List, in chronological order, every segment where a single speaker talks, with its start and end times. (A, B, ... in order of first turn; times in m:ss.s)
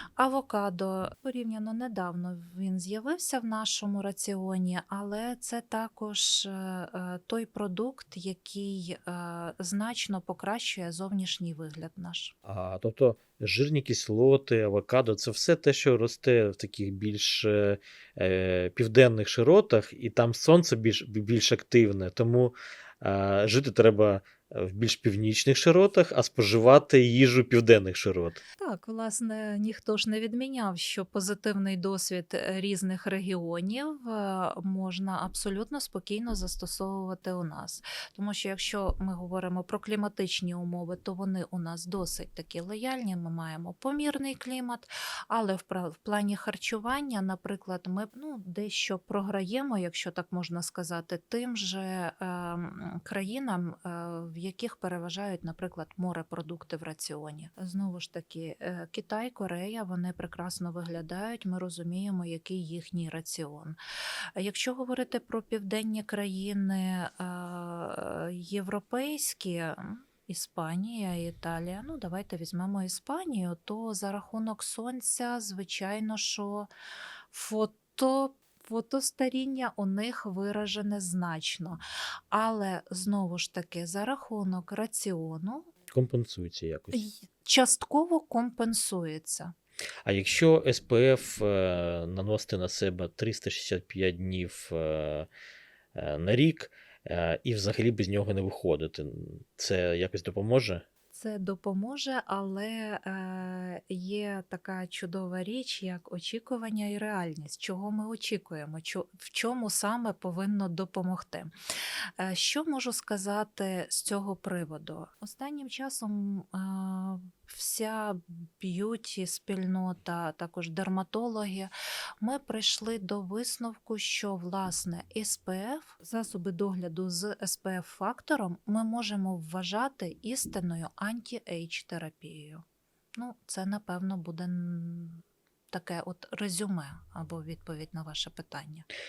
0:00.2-0:12.3 A
0:12.4-0:28.4 B
0:28.6-1:03.8 A
1:04.4-1:16.7 A
1:17.3-1:21.8 A
1:22.3-1:25.7 A
1:25.9-1:27.0 B
1:26.9-1:29.5 A
1:30.0-1:35.3 B
1:35.9-1:40.8 B
1:41.1-1:51.5 A
1:52.2-2:01.7 A
2:02.2-2:12.6 A
2:13.2-2:18.8 A